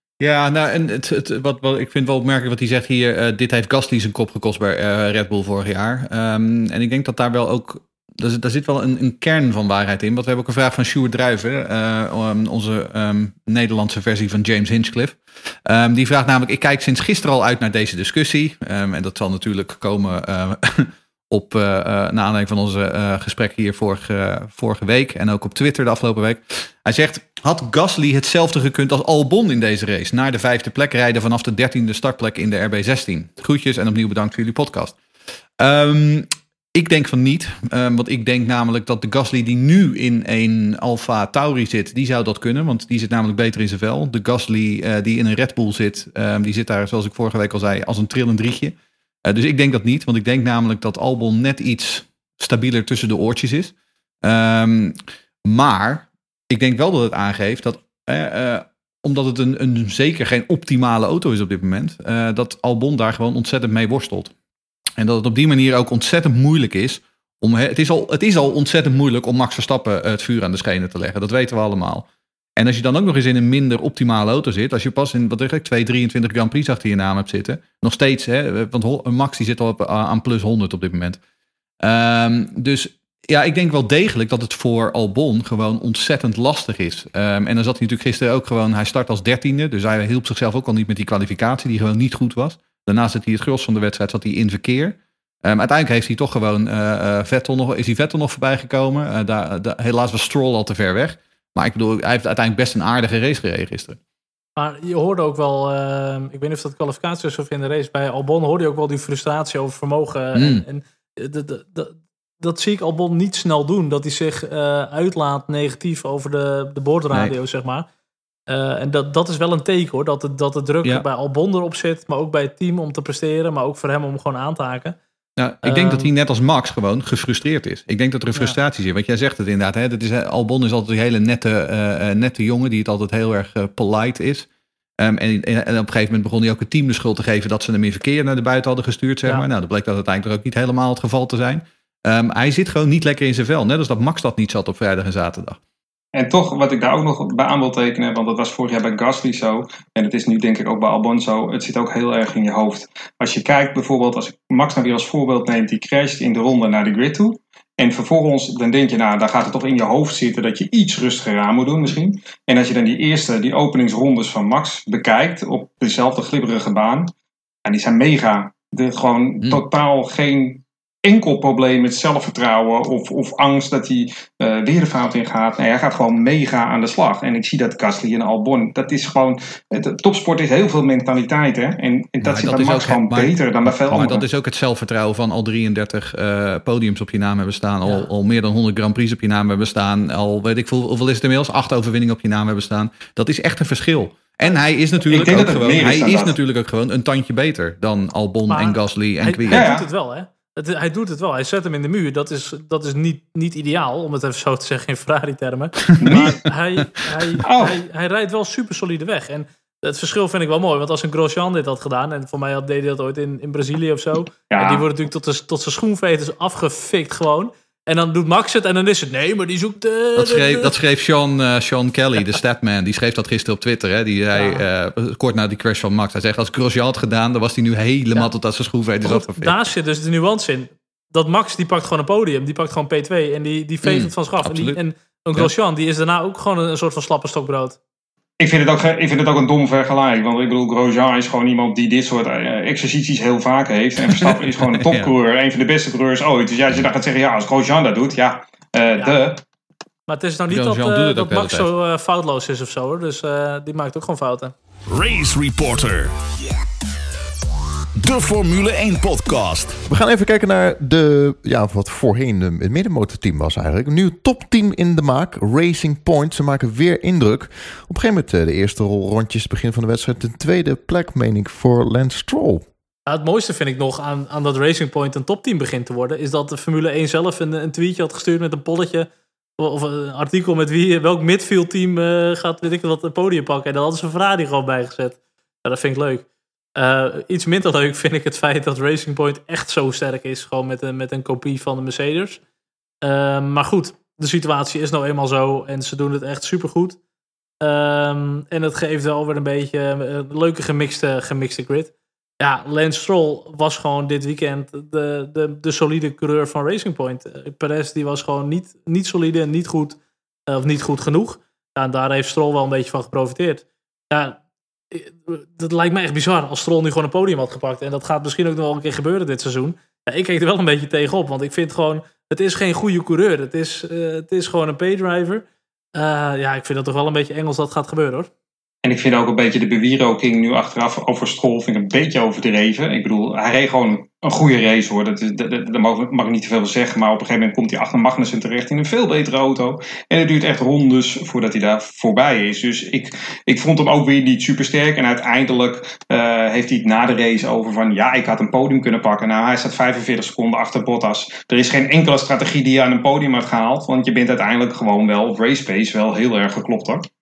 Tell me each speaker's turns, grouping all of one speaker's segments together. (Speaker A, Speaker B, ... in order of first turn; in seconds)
Speaker A: 0.2-35.0, 35.6-48.7, 49.2-64.3, 65.0-81.2, 81.8-104.0, 110.3-110.6, 125.4-134.5, 135.0-145.6, 182.2-199.7, 206.1-206.4, 220.2-229.5, 233.8-234.8, 244.0-245.1, 250.5-251.7
Speaker B: 104.6-117.9, 118.5-125.0, 125.6-126.1, 187.8-188.1, 198.5-220.7, 224.3-224.6, 229.0-237.8, 250.1-254.5, 273.1-292.4, 293.0-297.0, 297.6-314.4, 314.9-325.4, 325.9-328.3
Speaker C: 146.1-167.1, 167.6-184.2, 195.1-196.3, 199.5-199.8, 206.0-206.4, 207.4-207.8, 214.5-214.8, 238.4-249.4, 328.8-357.0
Speaker D: 254.9-256.1, 258.0-259.8
Speaker E: 259.9-272.6